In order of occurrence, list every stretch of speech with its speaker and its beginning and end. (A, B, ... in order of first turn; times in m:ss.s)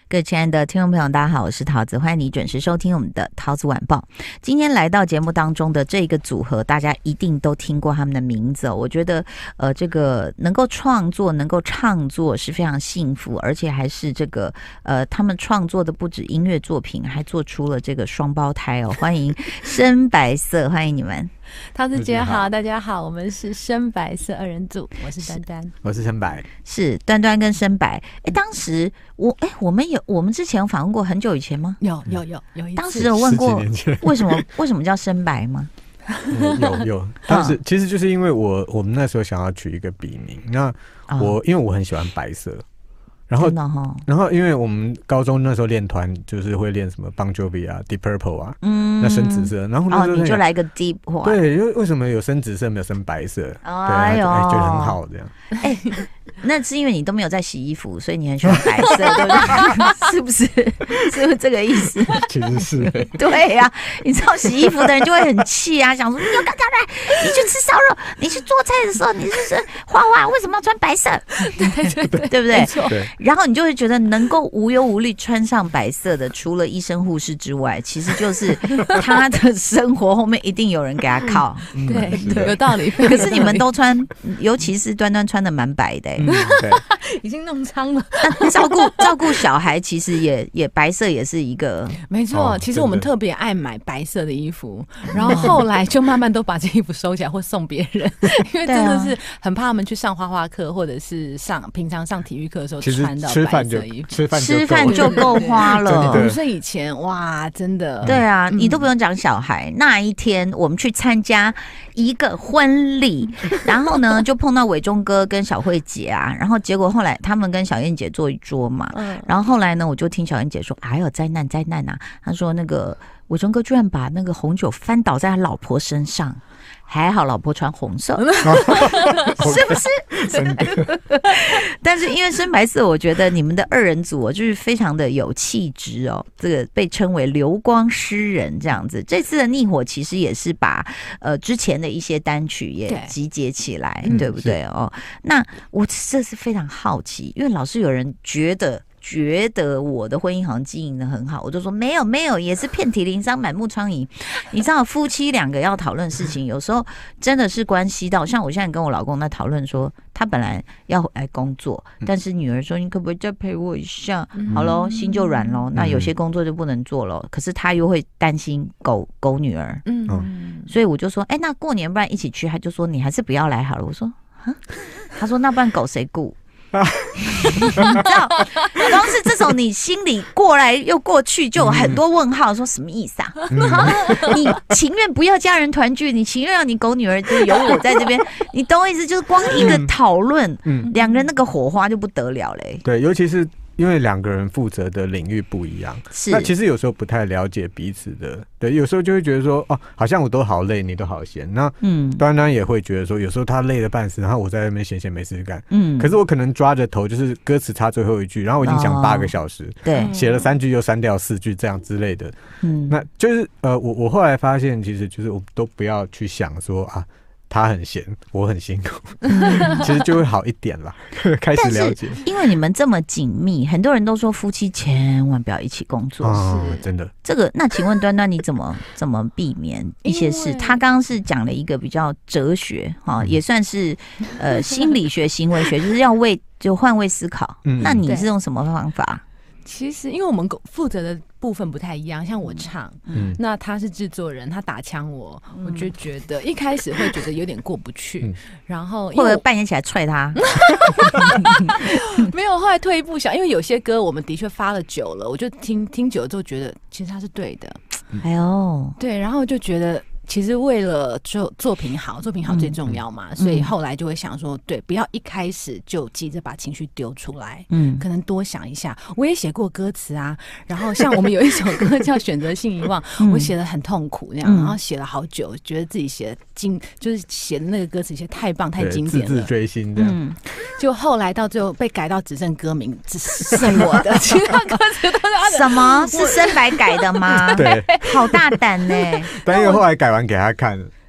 0:00.1-0:21.3 A
0:21.7-0:25.7 B
0:22.0-0:22.5 C
0:25.8-0:26.5 C
0:26.6-0:31.8 A
0:31.8-0:33.1 B
0:32.8-0:35.7 A
0:32.9-0:34.5 C
0:36.3-0:42.6 C
0:36.6-0:36.8 B
0:37.3-0:37.6 A
0:41.1-0:41.4 A
0:43.3-0:50.4 C
0:43.4-0:44.1 A
0:48.6-0:51.4 A
0:51.2-0:55.4 C
0:53.6-0:55.0 A
0:55.6-1:02.3 A
0:58.5-0:59.7 C
0:59.1-0:59.9 B
1:02.1-1:03.2 C
1:03.1-1:21.7 A
1:11.4-1:13.0 B
1:21.7-1:22.6 C
1:21.7-1:23.7 B
1:22.2-1:26.3 A
1:26.2-1:26.8 C
1:26.2-1:29.4 B
1:28.2-1:32.0 A
1:32.1-1:44.2 B
1:32.3-1:33.1 C
1:35.3-1:35.6 A
1:38.6-1:39.2 A
1:42.8-1:46.4 C
1:44.3-1:46.3 A
1:44.9-1:48.9 B
1:48.0-2:10.4 A
1:58.9-1:59.3 B
2:08.3-2:09.8 B
2:08.4-2:10.9 C
2:10.3-2:11.0 B
2:11.2-2:49.8 A
2:22.9-2:23.2 B
2:24.0-2:24.6 C
2:44.4-2:45.6 B
2:45.7-2:46.1 C
2:49.9-2:50.7 B
2:50.7-2:56.4 A
2:56.7-2:58.0 C
2:57.3-3:12.8 A
3:01.6-3:02.0 C
3:03.5-3:04.3 C
3:03.6-3:04.3 B
3:09.5-3:09.9 C
3:10.7-3:10.9 C
3:10.9-3:11.3 B
3:12.8-3:32.4 C
3:16.1-3:16.5 A
3:21.8-3:22.2 A
3:25.7-3:26.1 A
3:28.6-3:30.1 A
3:29.9-3:30.6 B
3:32.6-3:33.0 A
3:32.9-3:42.2 C
3:39.3-3:39.9 A
3:39.3-3:40.0 B
3:41.5-3:46.4 A
3:46.2-3:47.1 C
3:46.4-3:46.9 B
3:47.2-3:59.2 A
3:50.0-3:50.8 B
3:57.6-3:58.1 C
3:58.1-3:58.3 B
3:59.6-4:09.4 B
4:05.6-4:05.9 A
4:09.1-4:10.4 A
4:10.4-4:17.8 B
4:11.2-4:11.7 A
4:18.2-4:19.0 A
4:19.0-4:39.5 B
4:22.5-4:22.8 A
4:23.4-4:23.7 A
4:27.7-4:28.0 A
4:33.2-4:33.5 A
4:34.4-4:34.8 A
4:38.8-4:40.2 C
4:40.0-4:40.4 A
4:40.6-4:49.8 B
4:43.5-4:44.0 A
4:45.4-4:49.3 A
4:47.5-4:48.6 C
4:49.4-4:50.9 C